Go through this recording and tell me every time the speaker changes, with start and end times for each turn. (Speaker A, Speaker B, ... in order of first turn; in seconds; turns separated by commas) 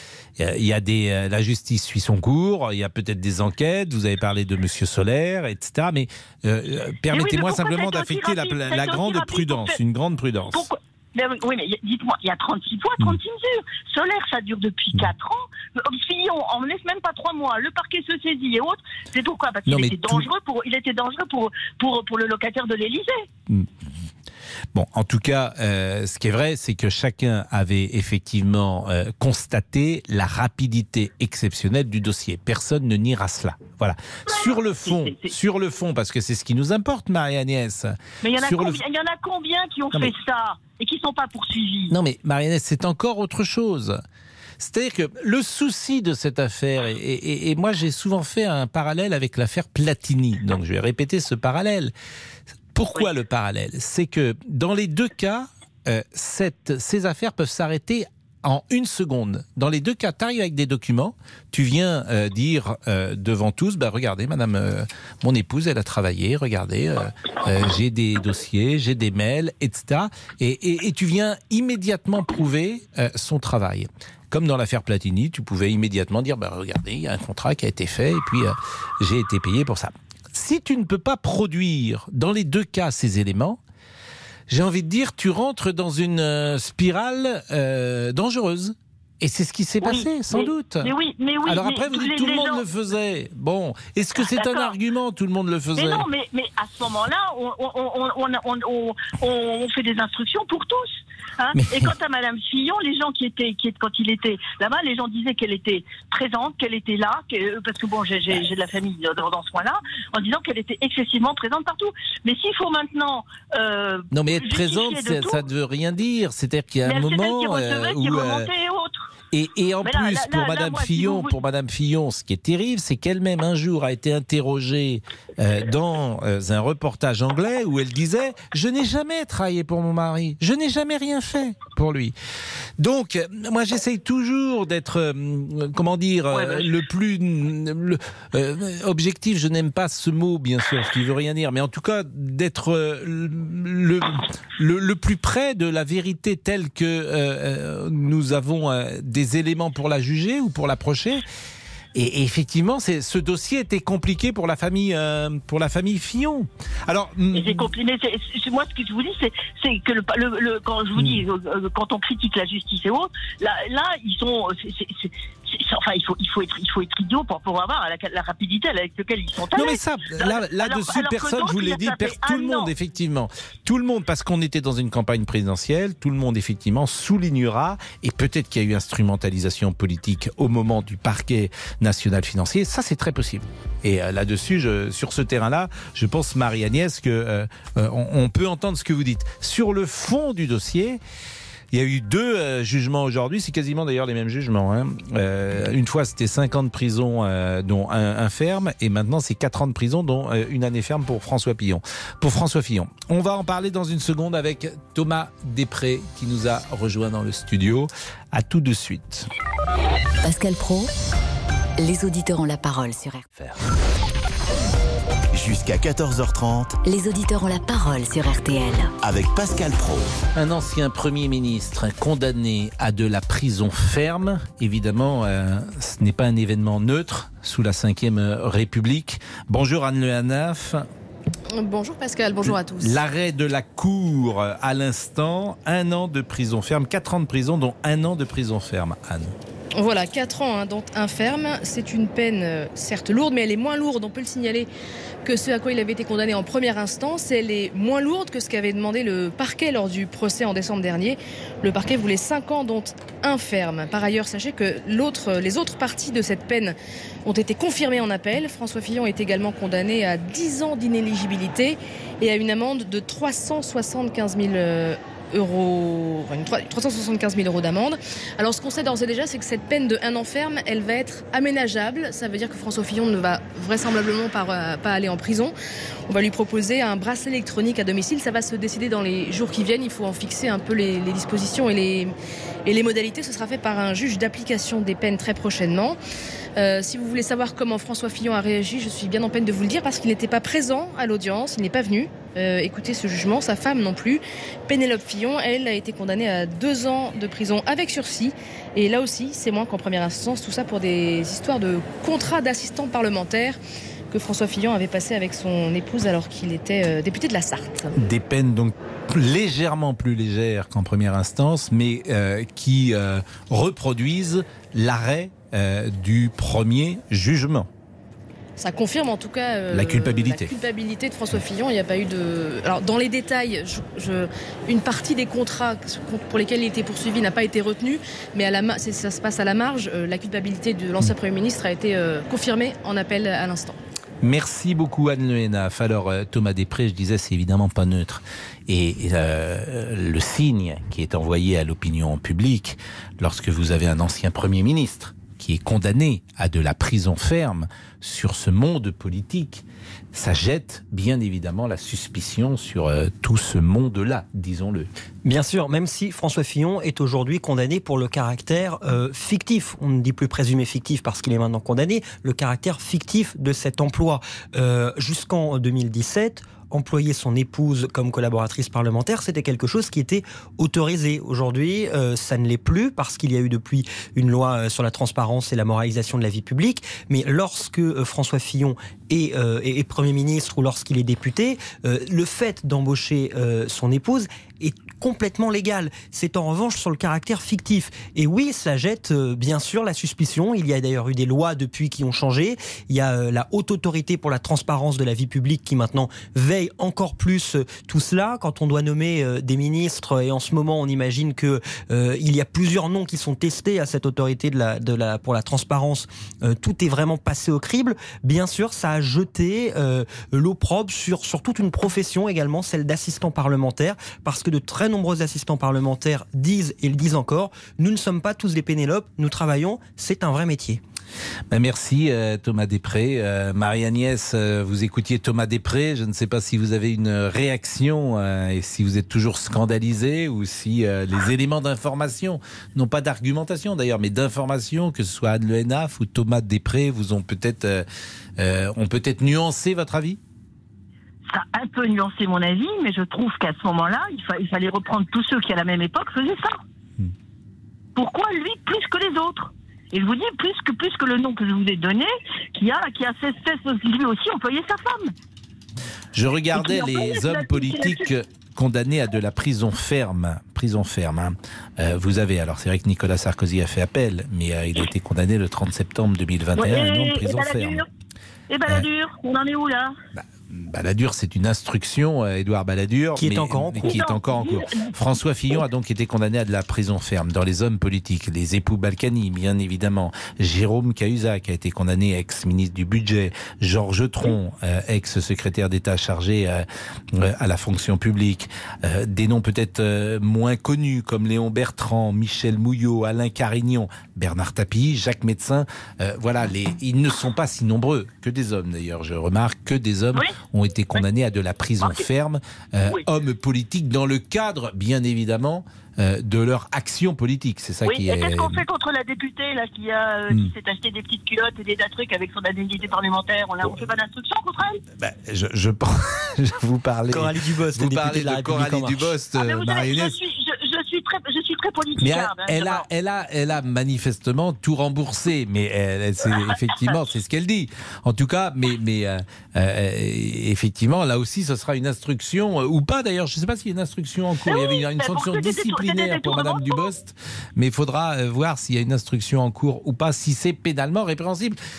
Speaker A: 0.4-10.7, Speaker B: 7.1-9.8, Speaker B: 10.5-23.2, Speaker A: 19.7-20.3, Speaker A: 24.7-38.8, Speaker B: 34.3-35.3, Speaker B: 38.2-42.0, Speaker A: 41.9-44.0, Speaker A: 44.6-51.9, Speaker A: 52.7-83.6, Speaker A: 84.5-90.9, Speaker B: 89.8-92.6, Speaker A: 91.5-96.0, Speaker B: 94.2-94.8, Speaker B: 95.8-100.8, Speaker B: 101.4-115.4, Speaker A: 114.1-118.5, Speaker B: 116.8-119.1, Speaker A: 119.3-132.2, Speaker B: 119.8-121.4, Speaker A: 132.8-151.2, Speaker B: 136.3-136.7, Speaker A: 151.9-157.7, Speaker B: 157.3-172.7, Speaker A: 169.5-191.0, Speaker A: 191.7-209.3, Speaker C: 210.2-210.9, Speaker C: 211.8-213.3, Speaker D: 215.3-216.8, Speaker C: 216.8-218.9, Speaker D: 219.0-220.1, Speaker A: 220.3-230.9, Speaker E: 231.5-233.0, Speaker A: 232.4-239.3, Speaker E: 239.8-244.7, Speaker E: 245.2-275.5, Speaker E: 276.1-286.0, Speaker E: 286.6-303.6, Speaker E: 304.1-307.9, Speaker A: 307.9-317.7, Speaker E: 318.6-333.8, Speaker A: 319.7-320.5, Speaker A: 334.2-354.9, Speaker F: 355.2-420.8, Speaker A: 421.5-437.9, Speaker A: 438.4-440.2, Speaker B: 441.3-446.6, Speaker B: 448.0-455.1, Speaker A: 456.1-467.8, Speaker B: 456.5-458.1, Speaker B: 466.6-467.9, Speaker B: 468.5-469.9, Speaker A: 470.1-508.6, Speaker F: 473.2-473.9, Speaker B: 473.8-474.9, Speaker B: 501.8-502.1, Speaker B: 507.9-514.8, Speaker A: 515.0-520.2, Speaker F: 517.1-519.2, Speaker B: 519.3-522.9, Speaker A: 522.0-541.6, Speaker B: 534.5-536.9